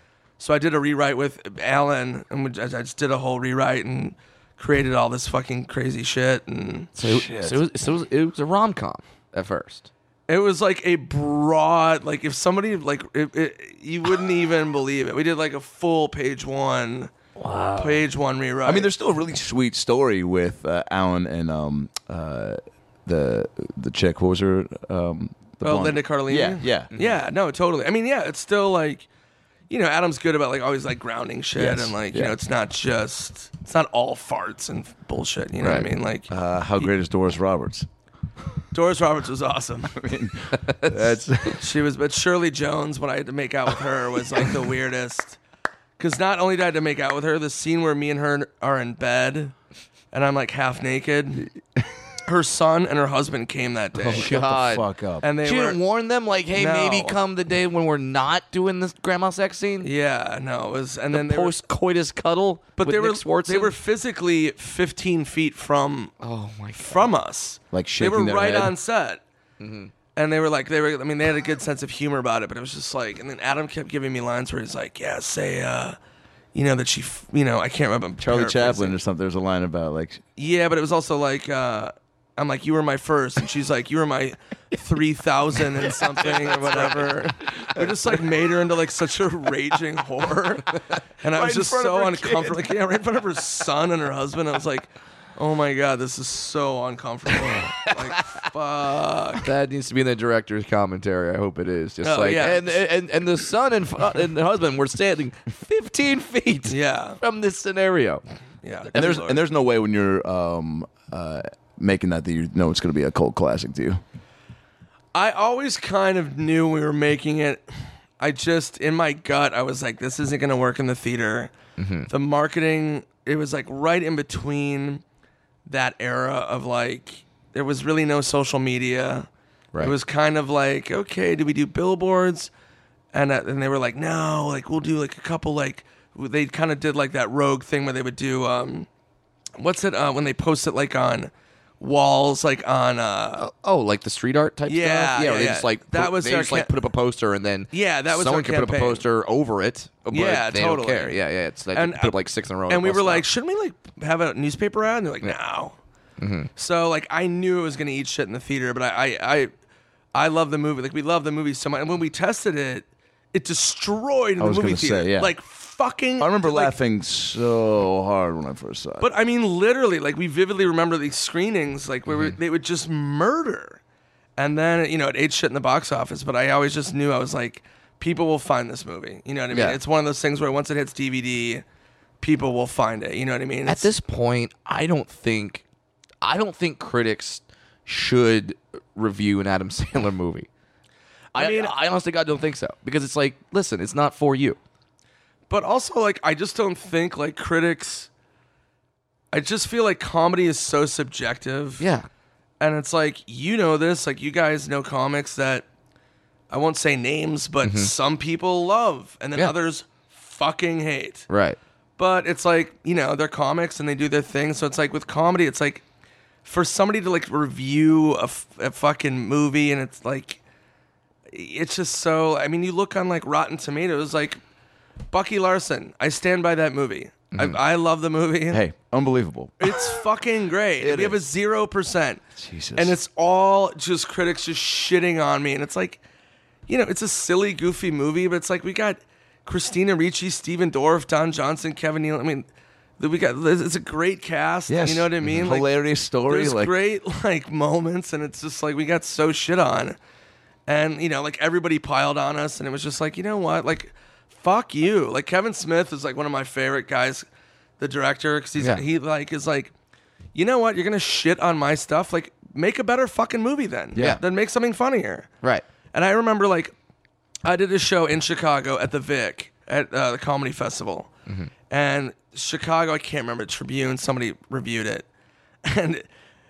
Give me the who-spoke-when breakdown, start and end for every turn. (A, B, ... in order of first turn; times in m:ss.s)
0:00.4-0:07.0 A
0:07.0-0:09.9 B
0:07.0-0:07.6 C
0:10.3-0:17.1 A
0:17.4-0:18.1 B
0:17.8-0:18.9 A
0:18.6-0:26.9 C
0:25.6-0:29.0 A
0:26.9-0:27.2 B
0:29.7-0:36.9 A
0:31.6-0:32.3 C
0:35.6-0:35.9 B
0:36.3-0:37.9 C
0:38.7-0:40.0 A
0:39.9-0:41.6 C
0:40.7-0:41.1 B
0:41.6-0:45.4 A
0:46.0-0:49.5 A
0:50.1-0:51.5 A
0:52.2-0:54.5 A
0:54.0-0:54.8 B
0:54.1-0:55.2 C
0:55.2-0:55.8 A
0:55.4-0:59.9 B
0:56.5-0:57.2 A
0:59.8-1:01.6 A
1:01.1-1:03.7 B
1:02.8-1:06.1 A
1:06.2-1:07.1 B
1:06.8-1:09.2 A
1:07.7-1:08.7 C
1:09.6-1:09.9 B
1:10.1-1:16.0 A
1:16.5-1:19.0 A
1:18.2-1:20.2 C
1:20.4-1:39.5 A
1:25.8-1:27.2 B
1:31.3-1:32.6 C
1:37.5-1:38.2 B
1:39.4-1:48.2 B
1:42.0-1:42.8 A
1:46.7-1:47.2 A
1:48.6-1:49.4 A
1:48.9-1:54.0 C
1:55.1-2:01.5 A
2:01.8-2:02.1 B
2:02.1-2:05.0 A
2:05.6-2:12.5 A
2:13.1-2:18.9 A
2:19.6-2:23.5 A
2:23.4-2:33.3 B
2:24.7-2:26.7 A
2:27.7-2:29.0 A
2:30.1-2:31.2 A
2:31.7-2:35.8 A
2:36.2-2:36.5 B
2:36.6-2:39.5 A
2:40.1-2:46.8 A
2:44.4-2:45.3 C
2:46.2-2:49.1 C
2:49.0-2:53.8 A
2:52.1-2:52.4 B
2:54.4-3:01.6 A
2:59.5-2:59.8 B
3:02.2-3:03.9 A
3:03.6-3:05.6 B
3:06.2-3:10.5 B
3:11.3-3:11.7 A
3:11.3-3:14.6 B
3:15.5-3:18.1 A
3:19.3-3:21.8 A
3:21.8-3:22.1 B
3:22.6-3:25.7 A
3:26.5-3:31.3 A
3:27.6-3:27.9 B
3:31.3-3:31.6 B
3:32.0-3:35.8 A
3:36.4-3:40.4 A
3:41.3-3:44.4 A
3:45.1-3:48.6 A
3:47.3-3:47.6 B
3:48.5-3:49.9 C
3:49.6-3:52.2 A
3:50.8-3:51.2 C
3:52.4-3:52.9 C
3:52.8-3:56.0 A
3:56.7-4:02.4 A
4:03.0-4:05.7 A
4:04.7-4:06.7 C
4:06.2-4:10.0 A
4:10.7-4:17.2 A
4:17.8-4:19.7 A
4:18.6-4:18.8 B
4:20.3-4:25.3 A
4:24.0-4:24.2 B
4:25.9-4:26.7 A
4:27.4-4:31.1 A
4:31.7-4:35.0 A
4:35.6-4:36.0 A